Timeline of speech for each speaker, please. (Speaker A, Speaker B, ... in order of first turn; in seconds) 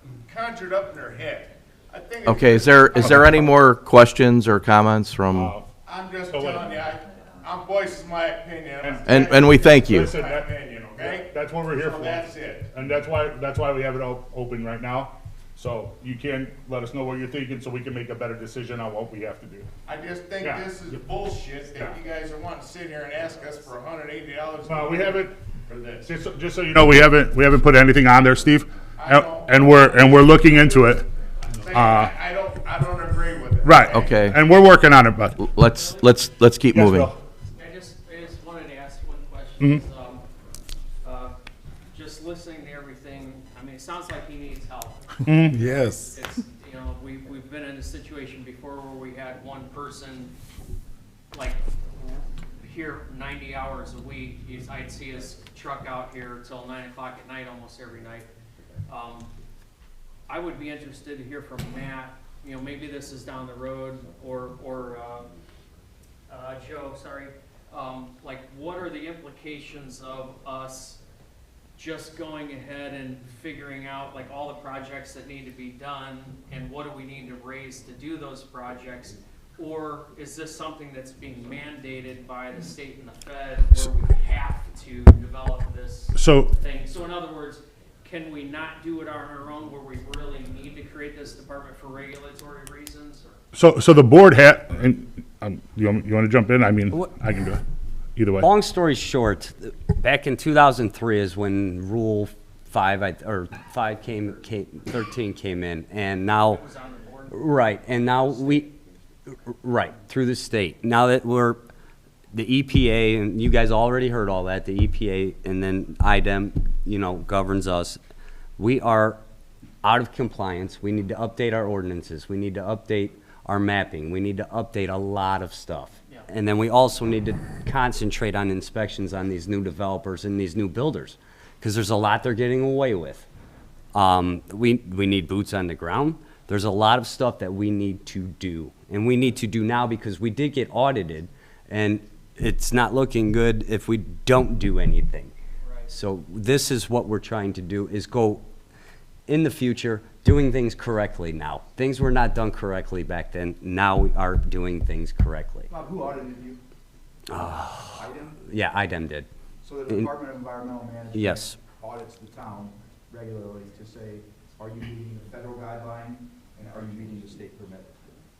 Speaker A: 0.2-3.5, 5.8-12.7, 19.8-26.1, 29.0-29.8, 31.6-34.2
Speaker B: 2.2-5.5, 9.1-10.2, 33.8-34.4, 35.4-37.1
Speaker C: 3.0-3.3, 5.3-5.7, 6.3-6.7, 8.8-9.4, 9.9-19.7, 20.4-20.7, 24.7-25.4, 26.0-31.1, 31.7-32.1, 33.6-35.4, 36.7-37.2, 45.2-46.0, 86.1-86.5, 93.5-97.6, 98.2-98.5
Speaker D: 35.6-36.2, 37.5-40.2, 41.0-41.3, 41.9-50.3, 51.3-58.3, 58.9-59.3, 60.3-65.3, 66.3-71.0, 71.8-93.4, 106.5-108.0, 145.6-145.9
Speaker E: 98.4-106.6, 107.3-108.7, 109.3-111.6, 112.3-118.0, 118.6-119.2, 119.8-133.3, 133.9-145.3, 145.9-148.4, 149.3-155.7, 157.3-159.3, 161.1-161.6
Speaker F: 155.7-156.6, 157.4-158.4, 159.6-168.0